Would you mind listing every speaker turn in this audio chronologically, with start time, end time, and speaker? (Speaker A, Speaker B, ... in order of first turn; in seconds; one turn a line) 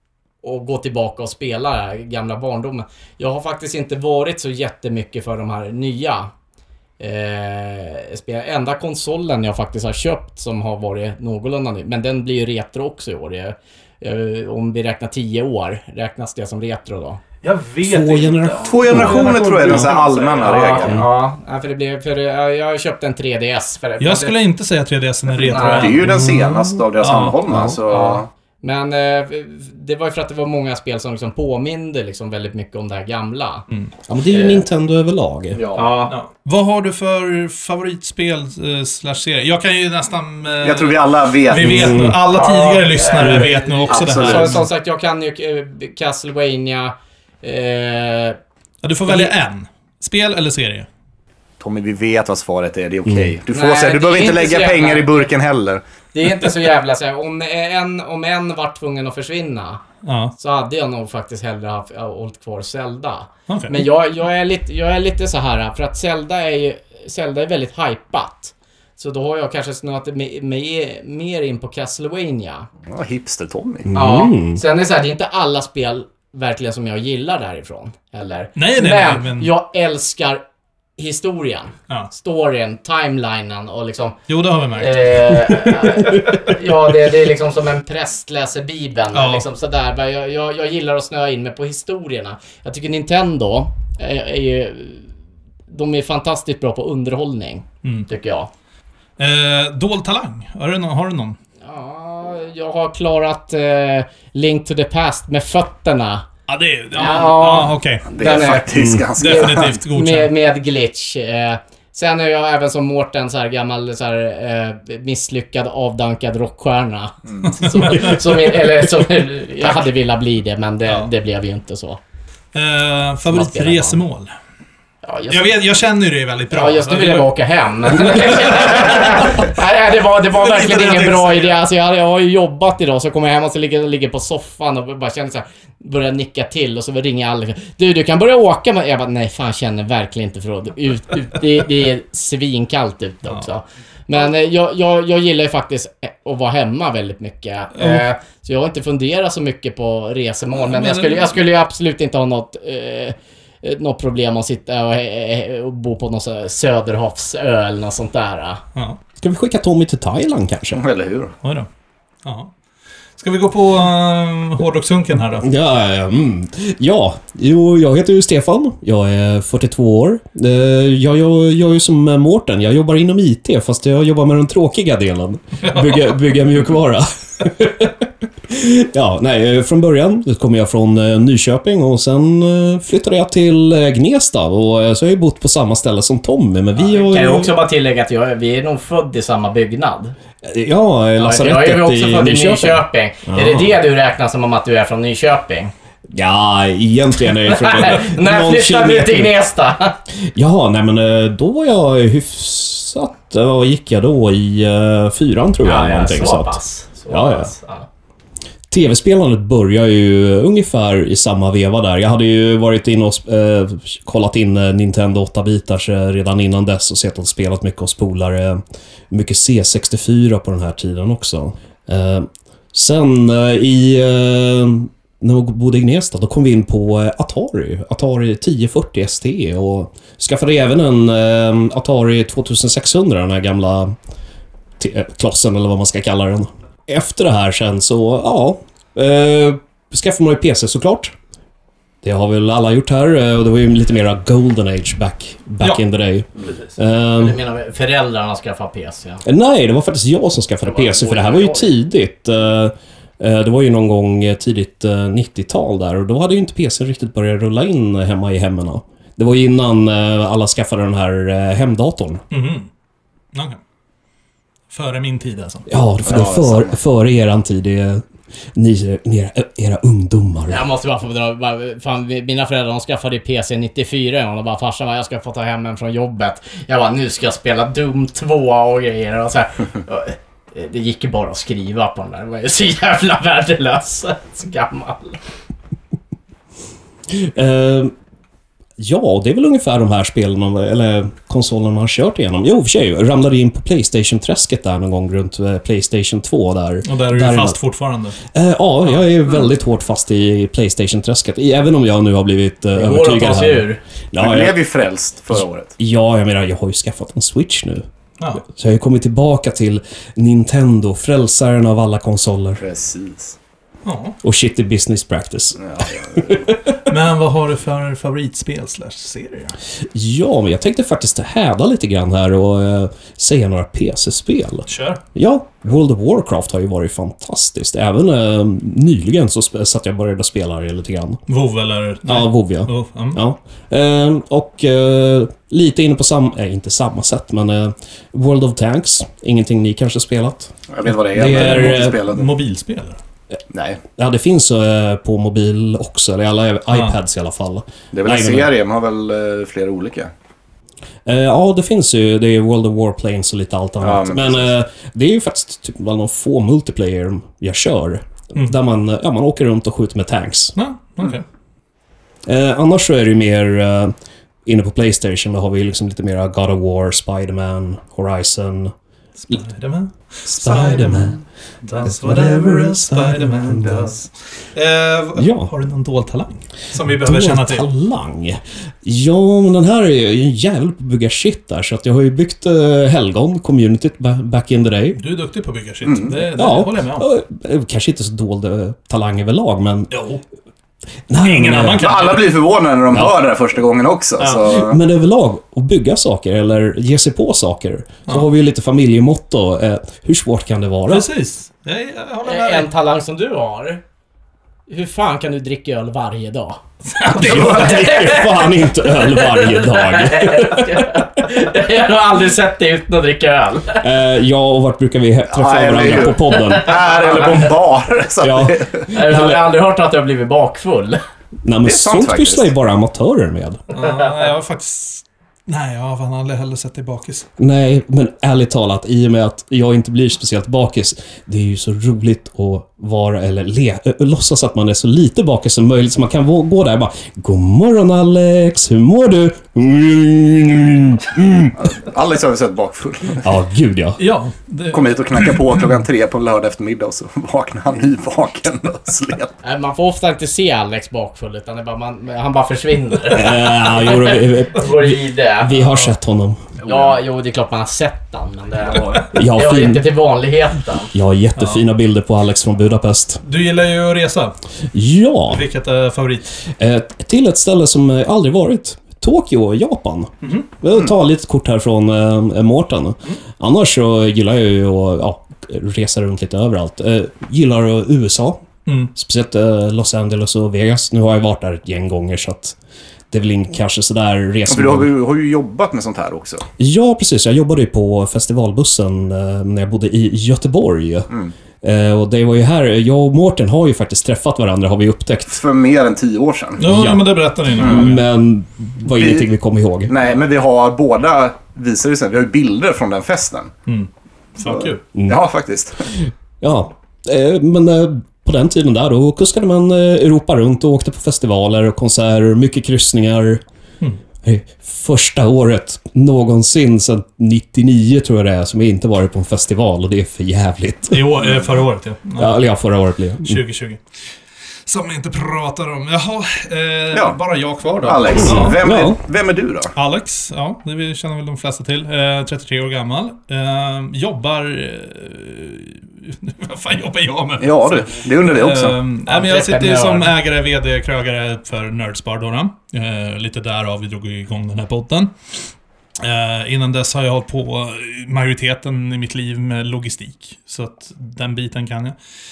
Speaker A: 0.4-6.3
Speaker A: 7.0-17.2
Speaker B: 17.4-20.9
Speaker C: 17.8-19.9
Speaker D: 18.6-21.0
Speaker A: 20.4-24.3
Speaker B: 24.0-27.4
Speaker A: 25.4-26.0
Speaker D: 25.5-28.3
Speaker C: 26.1-26.6
Speaker C: 27.5-27.8
Speaker A: 27.9-33.6
Speaker C: 34.1-35.6
Speaker A: 34.3-34.6
Speaker D: 35.5-35.9
Speaker A: 35.7-36.1
Speaker B: 36.1-44.7
Speaker D: 40.6-42.1
Speaker C: 41.6-42.2
Speaker A: 42.3-48.4
Speaker D: 43.9-44.6
Speaker B: 48.8-50.9
Speaker A: 49.1-49.3
Speaker D: 51.6-55.8
Speaker C: 53.0-53.3
Speaker A: 53.5-55.3
Speaker A: 56.1-59.8
Speaker B: 60.0-60.3
Speaker A: 60.4-72.7
Speaker B: 63.5-63.8
Speaker D: 72.8-73.9
Speaker C: 73.8-74.6
Speaker A: 73.9-80.4
Speaker B: 78.5-79.5
Speaker A: 81.0-84.2
Speaker B: 84.3-86.3
Speaker A: 84.7-95.1
Speaker B: 89.1-89.5
Speaker A: 95.7-98.5
Speaker B: 97.8-98.1
Speaker B: 99.2-101.4
Speaker A: 101.6-106.2
Speaker B: 106.5-108.1
Speaker A: 106.9-122.0
Speaker D: 108.1-109.8
Speaker C: 108.7-109.0
Speaker B: 109.2-110.3
Speaker D: 117.3-117.6
Speaker B: 117.4-118.6
Speaker B: 122.5-124.3
Speaker A: 123.2-124.0
Speaker A: 125.0-125.5
Speaker B: 125.3-127.3
Speaker A: 126.5-158.6
Speaker B: 127.9-129.5
Speaker B: 130.3-131.6
Speaker B: 147.7-148.0
Speaker B: 150.6-151.3
Speaker C: 159.2-160.8
Speaker D: 160.7-161.3
Speaker B: 161.4-161.7
Speaker B: 162.2-162.5
Speaker B: 163.2-165.5
Speaker C: 165.4-187.6
Speaker B: 175.6-176.1
Speaker A: 186.8-190.2
Speaker C: 190.4-193.8
Speaker A: 191.2-195.7
Speaker C: 196.1-199.3
Speaker A: 197.4-200.0
Speaker C: 200.1-206.6
Speaker A: 205.6-207.9
Speaker C: 207.1-207.5
Speaker C: 208.7-233.9
Speaker C: 234.8-241.1
Speaker C: 242.0-247.4
Speaker A: 247.1-249.2
Speaker C: 249.2-262.2
Speaker A: 250.6-251.7
Speaker B: 262.3-262.7
Speaker B: 263.3-263.6
Speaker B: 264.7-265.7
Speaker C: 265.7-270.6
Speaker D: 266.0-266.8
Speaker A: 270.5-285.2
Speaker C: 287.1-287.9
Speaker C: 288.8-297.6
Speaker B: 296.8-298.2
Speaker C: 298.2-304.6
Speaker A: 302.7-303.8
Speaker D: 304.2-305.7
Speaker C: 305.3-307.8
Speaker C: 308.4-312.6
Speaker D: 312.6-313.4
Speaker B: 313.8-314.2
Speaker C: 314.2-316.8
Speaker D: 315.6-316.4
Speaker B: 316.7-319.6
Speaker C: 319.9-331.2
Speaker B: 324.7-325.0
Speaker B: 331.3-333.2
Speaker C: 332.0-340.5
Speaker D: 340.7-342.3
Speaker C: 341.1-342.0
Speaker B: 341.1-343.0
Speaker D: 343.5-343.8
Speaker C: 343.9-348.5
Speaker D: 347.9-350.1
Speaker C: 351.1-360.5
Speaker D: 353.8-354.5
Speaker B: 360.6-361.2
Speaker C: 362.2-363.9
Speaker C: 364.4-368.7
Speaker B: 369.2-377.7
Speaker C: 370.3-371.2
Speaker C: 371.8-373.9
Speaker C: 375.1-375.5
Speaker C: 376.9-385.0
Speaker B: 384.9-387.1
Speaker D: 385.8-386.2
Speaker C: 386.3-389.9
Speaker B: 389.9-390.2
Speaker C: 391.1-391.9
Speaker B: 391.2-392.4
Speaker D: 391.8-394.8
Speaker C: 394.4-401.1
Speaker B: 400.9-402.7
Speaker A: 402.2-403.8
Speaker A: 404.7-406.6
Speaker B: 406.9-408.0
Speaker C: 407.0-411.0
Speaker A: 407.2-413.9
Speaker C: 413.8-416.8
Speaker D: 415.3-418.9
Speaker A: 416.3-417.2
Speaker C: 418.2-419.5
Speaker A: 418.9-421.0
Speaker C: 421.4-423.6
Speaker D: 421.6-422.5
Speaker B: 423.7-427.3
Speaker C: 427.4-441.7
Speaker D: 441.6-443.3
Speaker C: 443.2-444.0
Speaker B: 444.0-445.8
Speaker D: 444.7-449.3
Speaker A: 449.4-455.7
Speaker C: 453.1-456.5
Speaker D: 456.6-457.0
Speaker A: 456.6-460.9
Speaker B: 458.8-459.0
Speaker C: 459.1-459.9
Speaker C: 460.9-463.2
Speaker B: 461.4-461.6
Speaker B: 463.2-464.4
Speaker C: 464.7-465.4
Speaker B: 465.3-466.3
Speaker C: 466.5-482.6
Speaker B: 478.6-478.9
Speaker C: 483.1-484.9
Speaker D: 484.5-486.5
Speaker C: 486.6-491.1
Speaker C: 491.6-495.4
Speaker D: 495.3-496.6
Speaker B: 496.6-498.0
Speaker C: 496.6-499.9
Speaker D: 497.6-497.9
Speaker D: 498.9-499.3
Speaker D: 499.9-503.5
Speaker B: 503.7-504.8
Speaker D: 504.4-505.9
Speaker C: 505.9-513.4
Speaker C: 514.2-521.2
Speaker B: 520.9-522.4
Speaker C: 522.2-523.4
Speaker B: 523.2-523.8
Speaker B: 524.6-528.6
Speaker D: 526.9-527.2
Speaker D: 527.8-529.7
Speaker C: 528.1-529.0
Speaker B: 529.7-545.1
Speaker D: 537.4-538.8
Speaker A: 539.1-540.1
Speaker B: 546.0-551.9